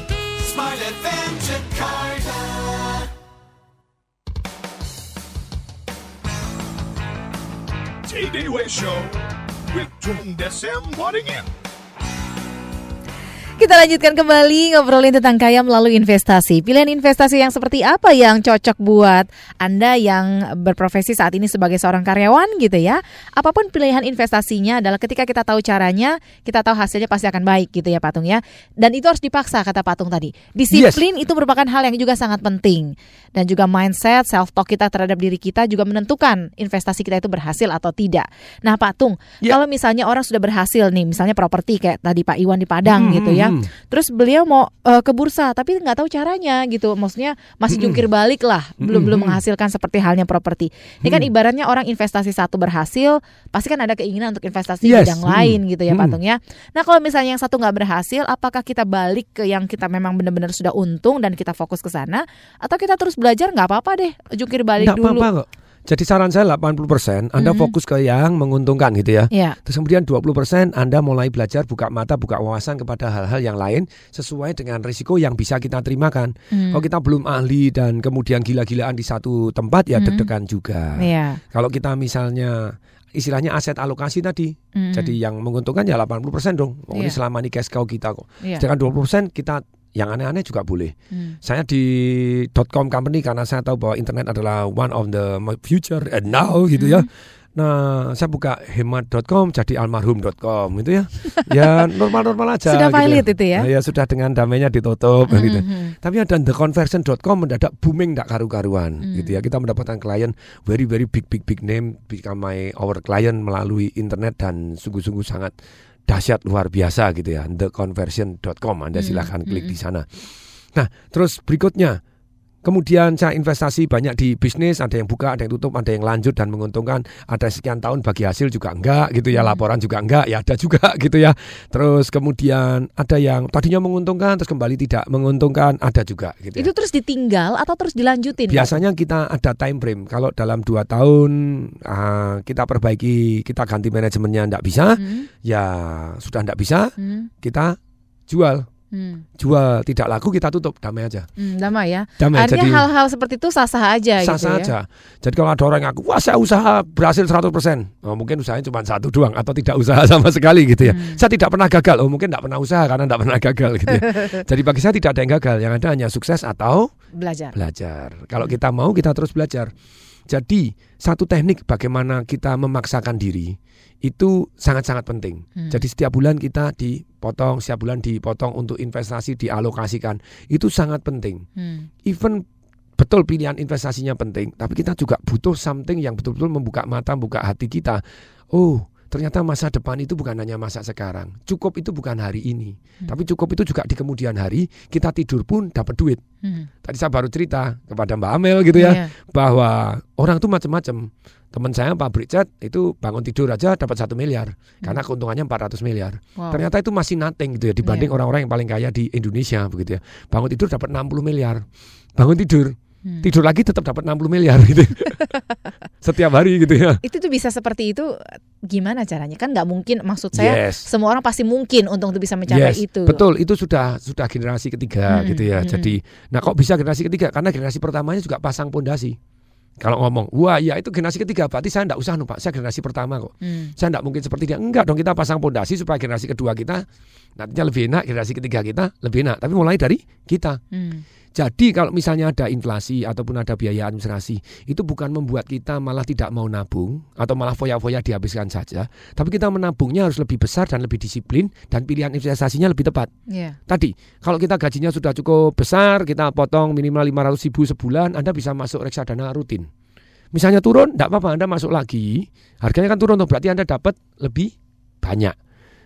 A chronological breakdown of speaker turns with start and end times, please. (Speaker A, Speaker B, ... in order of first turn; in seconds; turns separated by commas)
Speaker A: 0.5-2.5, Speaker B: 8.1-11.5, Speaker C: 13.6-65.3, Speaker D: 30.7-31.0, Speaker D: 42.8-43.7, Speaker D: 47.7-48.0, Speaker D: 48.8-49.4, Speaker D: 51.0-51.3, Speaker D: 54.8-56.2, Speaker D: 64.8-115.5, Speaker C: 67.4-67.7, Speaker C: 69.3-69.6, Speaker C: 76.5-76.8, Speaker C: 80.0-80.3, Speaker C: 81.0-81.4, Speaker C: 84.8-85.1, Speaker C: 86.9-87.2, Speaker C: 91.1-91.4, Speaker C: 96.8-97.0, Speaker C: 102.7-103.7, Speaker C: 105.3-105.9, Speaker C: 109.0-109.3, Speaker D: 116.1-120.2, Speaker C: 119.0-119.7, Speaker D: 120.7-122.0, Speaker D: 122.6-136.7, Speaker C: 136.6-138.8, Speaker D: 138.5-147.8, Speaker C: 145.0-145.3, Speaker C: 147.0-147.3, Speaker D: 148.3-148.7, Speaker C: 148.9-149.2, Speaker D: 149.4-151.2, Speaker C: 151.4-154.7, Speaker D: 152.2-152.9, Speaker D: 154.2-166.9, Speaker C: 160.8-161.2, Speaker C: 164.0-164.3, Speaker C: 167.2-167.5, Speaker D: 167.5-169.7, Speaker D: 170.3-181.4, Speaker C: 175.6-175.8, Speaker C: 181.6-181.9, Speaker D: 182.0-182.4, Speaker D: 183.0-188.0, Speaker D: 188.5-196.2, Speaker C: 196.4-196.7, Speaker D: 196.8-211.6, Speaker C: 198.7-199.1, Speaker C: 206.4-206.6, Speaker C: 207.8-208.1, Speaker D: 212.2-215.2, Speaker D: 216.0-217.0, Speaker C: 217.0-218.1, Speaker C: 218.7-223.2, Speaker D: 220.3-220.9, Speaker D: 222.5-229.2, Speaker C: 225.1-225.9, Speaker D: 229.8-236.8, Speaker C: 233.4-233.7, Speaker D: 237.4-240.6, Speaker C: 240.7-241.0, Speaker D: 241.3-253.1, Speaker C: 253.3-253.6, Speaker D: 253.7-259.7, Speaker D: 260.3-265.3